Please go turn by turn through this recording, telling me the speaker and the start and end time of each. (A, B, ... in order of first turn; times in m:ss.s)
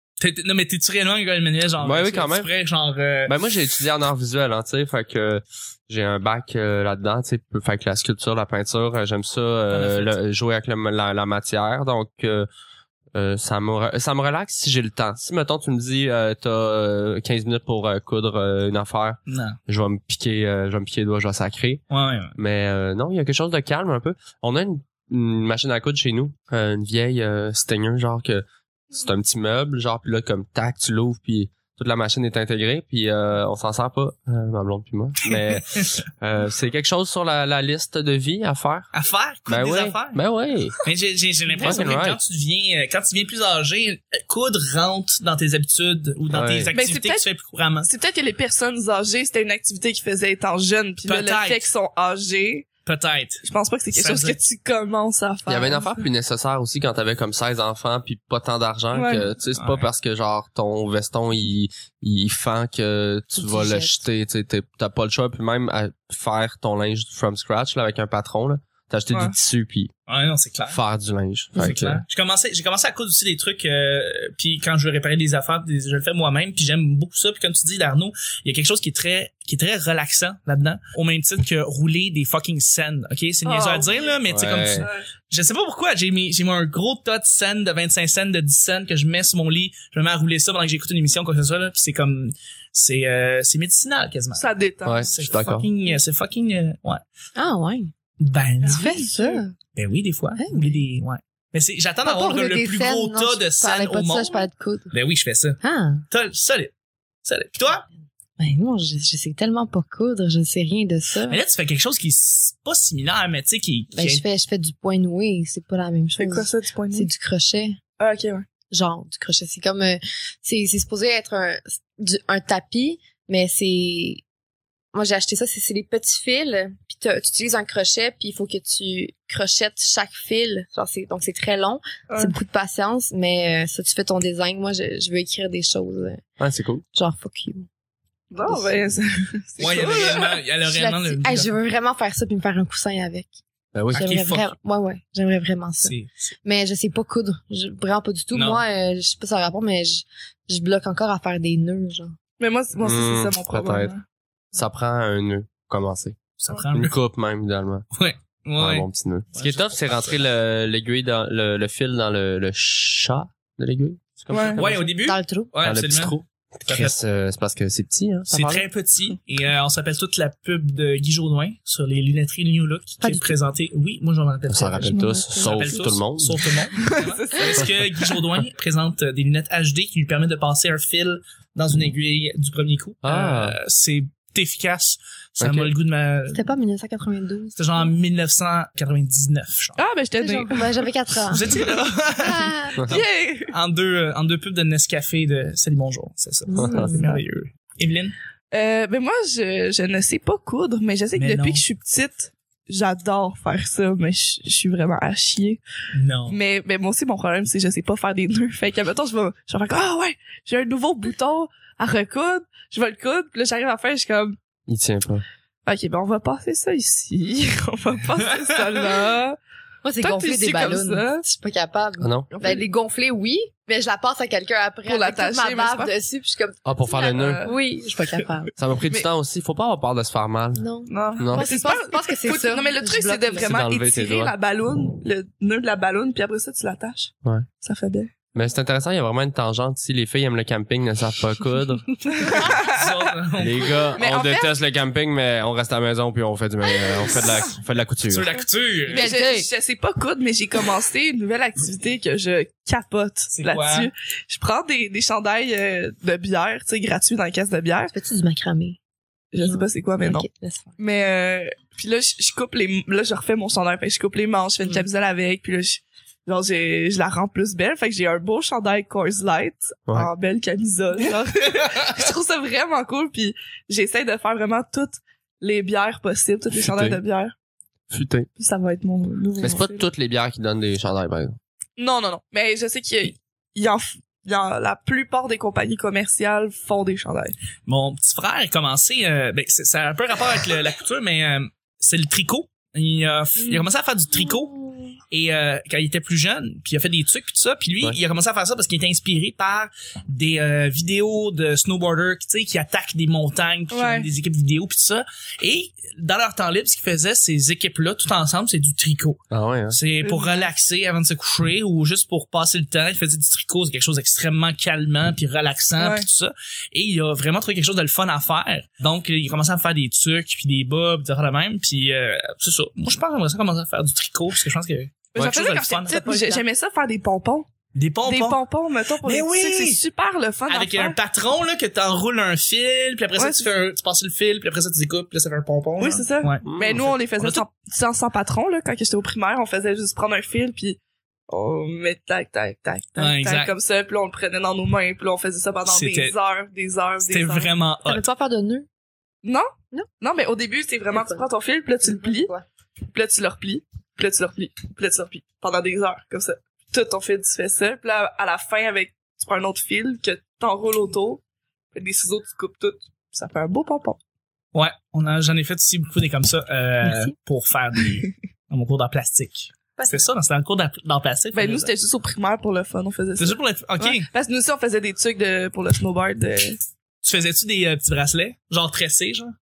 0:00.2-0:03.3 A
0:01.8-0:02.5 B
0:03.3-0:12.5 B
0:09.7-0:10.2 A
0:13.2-0:21.8 B
0:19.3-0:19.6 A
0:21.9-0:22.4 A
0:22.4-0:35.7 B
0:36.2-0:38.9 B
0:38.9-0:40.2 A
0:39.5-0:40.8 B
0:40.8-0:47.9 A
0:41.5-0:42.0 C
0:41.6-0:42.2 B
0:46.3-0:46.7 B
0:46.7-0:47.2 C
0:47.8-0:52.7 C
0:51.1-0:51.7 A
0:52.9-0:54.4 A
0:53.4-0:56.0 C
0:55.5-1:09.9 B
0:58.9-0:59.3 C
0:59.5-0:59.9 A
1:03.4-1:04.0 D
1:09.1-1:09.4 C
1:10.1-1:10.8 A
1:10.7-1:12.0 B
1:11.6-1:34.5 A
1:23.4-1:24.2 C
1:24.3-1:24.9 B
1:34.4-1:35.2 C
1:34.8-1:35.7 B
1:35.1-1:37.0 A
1:37.4-1:37.9 D
1:38.2-1:39.0 A
1:38.7-1:39.4 C
1:38.7-1:39.6 D
1:39.8-1:46.7 A
1:40.4-1:40.8 D
1:42.0-1:44.9 D
1:45.6-1:46.0 D
1:47.2-1:47.9 A
1:48.4-1:51.4 D
1:51.3-1:54.2 A
1:53.9-1:57.8 D
1:56.2-1:57.1 C
1:58.0-1:58.4 C
1:58.7-2:04.2 D
2:04.9-2:16.2 D
2:12.1-2:12.3 C
2:16.4-2:16.8 B
2:16.9-2:17.7 D
2:18.3-2:20.4 C
2:19.6-2:21.5 A
2:19.9-2:23.3 D
2:23.8-2:24.1 B
2:23.9-2:24.5 A
2:23.9-2:32.1 D
2:25.8-2:26.3 A
2:28.3-2:28.6 A
2:32.4-2:34.0 C
2:32.8-2:33.9 B
2:34.5-2:36.2 B
2:36.4-2:36.9 A
2:36.7-2:37.9 B
2:37.9-2:40.2 A
2:38.6-2:44.9 B
2:44.3-2:44.6 C
2:44.6-2:46.9 A
2:45.0-2:45.5 D
2:45.6-2:48.7 B
2:48.3-3:06.4 A
2:53.0-2:53.3 D
2:54.5-2:56.4 B
2:54.8-2:56.0 C
2:56.7-2:58.2 C
3:03.0-3:03.6 B
3:05.4-3:05.7 B
3:06.3-3:07.9 D
3:07.6-3:09.8 A
3:09.8-3:10.7 C
3:10.2-3:11.5 D
3:11.3-3:18.2 A
3:11.4-3:11.9 C
3:12.2-3:12.8 D
3:12.8-3:13.5 C
3:16.5-3:17.2 D
3:16.6-3:16.9 B
3:16.6-3:17.1 C
3:18.5-3:25.6 C
3:21.2-3:21.6 A
3:25.9-3:26.4 A
3:26.3-3:34.4 C
3:34.7-3:35.2 B
3:35.6-3:39.4 C
3:39.8-3:48.5 D
3:40.0-3:41.2 C
3:42.0-3:42.3 B
3:42.3-3:42.7 C
3:44.8-3:45.9 C
3:46.6-3:47.4 B
3:46.9-3:48.3 C
3:48.6-3:50.6 B
3:50.6-3:53.6 D
3:50.9-3:58.1 C
3:51.2-3:51.5 B
3:53.4-3:54.3 B
3:58.3-4:01.9 B
4:02.0-4:02.9 C
4:02.6-4:03.7 A
4:03.4-4:08.4 B
4:04.0-4:04.6 C
4:06.9-4:07.3 C
4:08.1-4:09.1 A
4:08.9-4:09.5 D
4:08.9-4:17.9 C
4:13.3-4:13.9 A
4:17.9-4:18.8 D
4:19.3-4:20.3 C
4:19.4-4:20.7 D
4:20.8-4:37.3 C
4:36.6-4:37.0 B
4:37.9-4:38.3 B
4:38.4-4:39.9 C
4:39.4-4:41.4 B
4:41.8-4:47.4 C
4:47.7-4:54.6 A
4:53.4-4:53.7 C
4:55.1-5:26.4 A
5:03.7-5:04.1 C
5:09.3-5:09.8 B
5:10.0-5:10.5 C
5:15.8-5:16.1 C
5:25.1-5:27.5 C
5:27.8-5:28.4 A
5:28.0-5:31.0 C
5:29.0-5:29.8 A
5:30.5-5:37.4 A
5:33.2-5:33.5 C
5:35.8-5:47.5 C
5:36.4-5:36.9 B
5:43.0-5:43.5 A
5:45.7-5:46.2 A
5:47.1-5:48.1 A
5:47.9-5:48.7 D
5:50.0-5:52.3 C
5:50.9-5:51.3 D
5:51.8-5:52.4 D
5:52.9-6:01.2 C
6:01.7-6:04.0 C
6:04.5-6:11.7 A
6:11.3-6:16.6 C
6:13.2-6:14.1 A
6:17.0-6:19.3 A